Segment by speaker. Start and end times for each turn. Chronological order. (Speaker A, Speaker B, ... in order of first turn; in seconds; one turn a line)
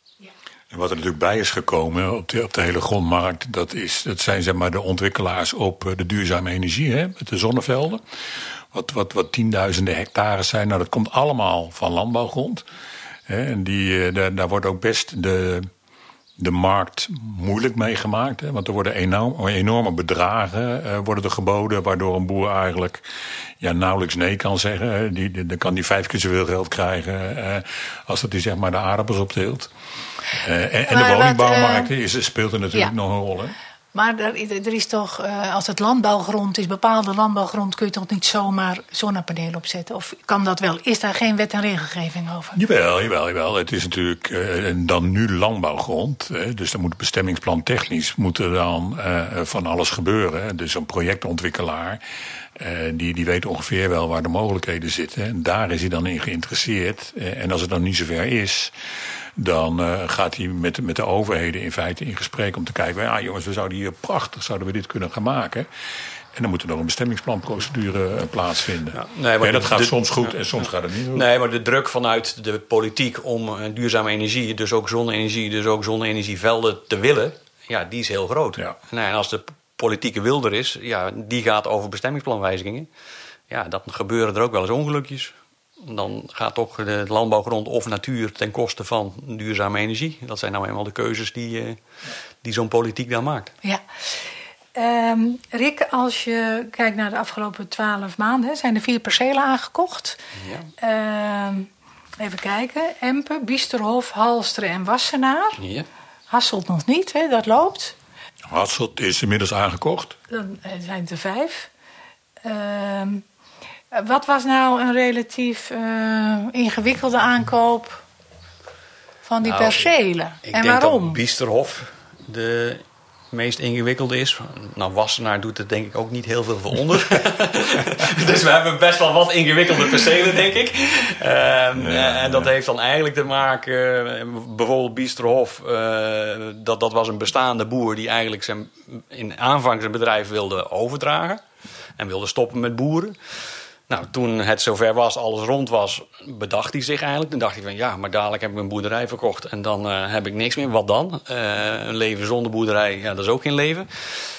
Speaker A: 0.7-8.0
Speaker A: 8.7-12.6
Speaker A: 13.3-15.7
Speaker A: 16.4-23.0
Speaker A: 23.6-29.7
Speaker A: 30.3-33.6
Speaker B: 30.8-31.9
Speaker B: 33.9-42.6
Speaker A: 42.5-52.0
Speaker A: 52.6-58.7
Speaker A: 59.4-65.7
Speaker A: 66.3-71.3
Speaker C: 68.9-70.3
Speaker C: 71.1-82.9
Speaker C: 83.5-91.8
Speaker C: 92.4-93.5
Speaker B: 94.8-100.2
Speaker C: 100.4-100.7
Speaker B: 100.8-105.6
Speaker C: 105.6-105.9
Speaker B: 106.3-108.0
Speaker A: 108.5-110.2
Speaker B: 110.3-111.7
Speaker B: 112.4-113.2
Speaker B: 113.9-118.0
Speaker B: 119.2-121.2
Speaker C: 119.4-119.9
Speaker C: 120.5-141.4
Speaker A: 131.8-132.5
Speaker C: 142.0-143.2
Speaker C: 143.9-153.9